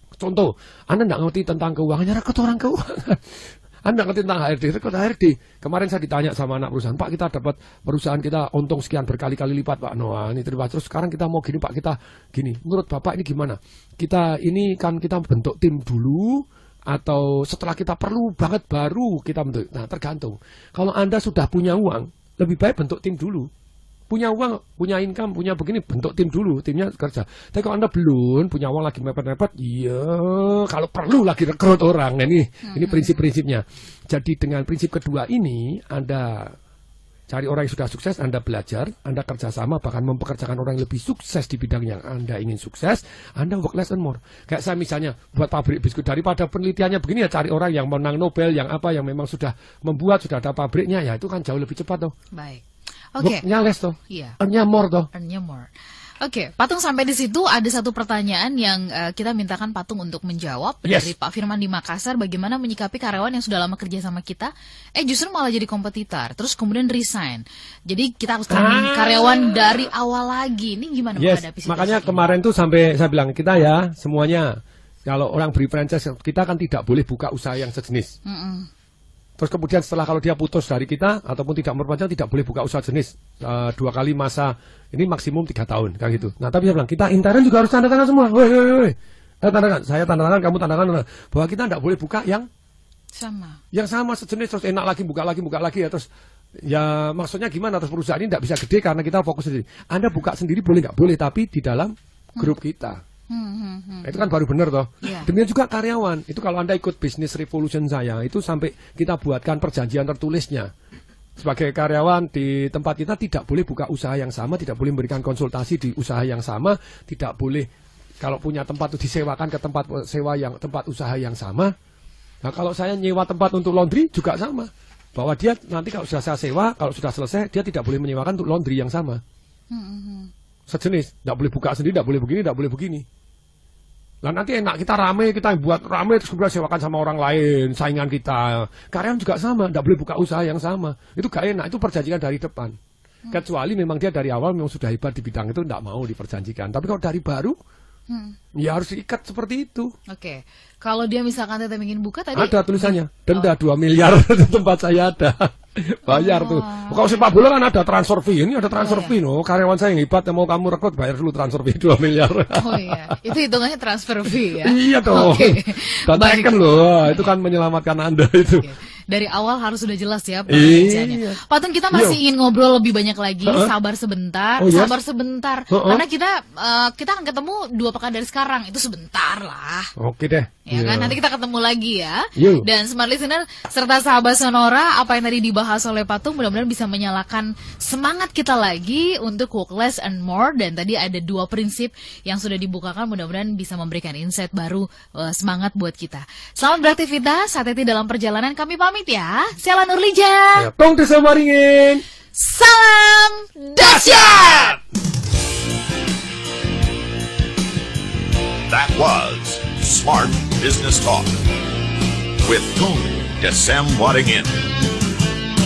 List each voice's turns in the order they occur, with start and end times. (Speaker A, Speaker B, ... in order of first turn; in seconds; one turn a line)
Speaker A: 0.2-23.5
Speaker A: 24.1-36.6
Speaker B: 32.7-33.1
Speaker A: 37.3-52.1
Speaker B: 52.3-53.4
Speaker A: 53.2-55.1
Speaker B: 54.1-54.4
Speaker B: 55.1-55.7
Speaker B: 56.2-72.3
Speaker A: 60.9-61.1
Speaker A: 68.5-69.9
Speaker A: 71.2-78.1
Speaker B: 78.3-78.7
Speaker A: 79.4-92.5
Speaker B: 93.2-93.6
Speaker A: 93.7-96.1
Speaker A: 96.6-103.0
Speaker B: 103.3-104.2
Speaker A: 104.0-110.7
Speaker B: 105.0-105.3
Speaker A: 111.4-117.7
Speaker A: 118.2-121.7
Speaker A: 122.4-129.2
Speaker B: 129.7-130.3
Speaker A: 130.7-133.1
Speaker A: 134.2-142.8
Speaker A: 143.3-147.6
Speaker B: 148.1-148.4
Speaker A: 148.6-149.9
Speaker B: 150.1-153.5
Speaker A: 152.3-163.2
Speaker B: 156.1-157.3
Speaker B: 158.8-159.2
Speaker B: 162.6-167.3
Speaker A: 164.6-168.7
Speaker B: 168.6-179.9
Speaker A: 170.5-171.4
Speaker A: 171.9-172.2
Speaker A: 173.5-173.7
Speaker A: 174.6-174.9
Speaker A: 175.7-176.0
Speaker A: 180.0-181.2
Speaker B: 180.7-200.7
Speaker A: 182.4-182.7
Speaker A: 200.6-202.0
Speaker B: 202.3-204.8
Speaker A: 203.8-204.8
Speaker C: 208.7-211.4
Speaker C: 212.4-214.6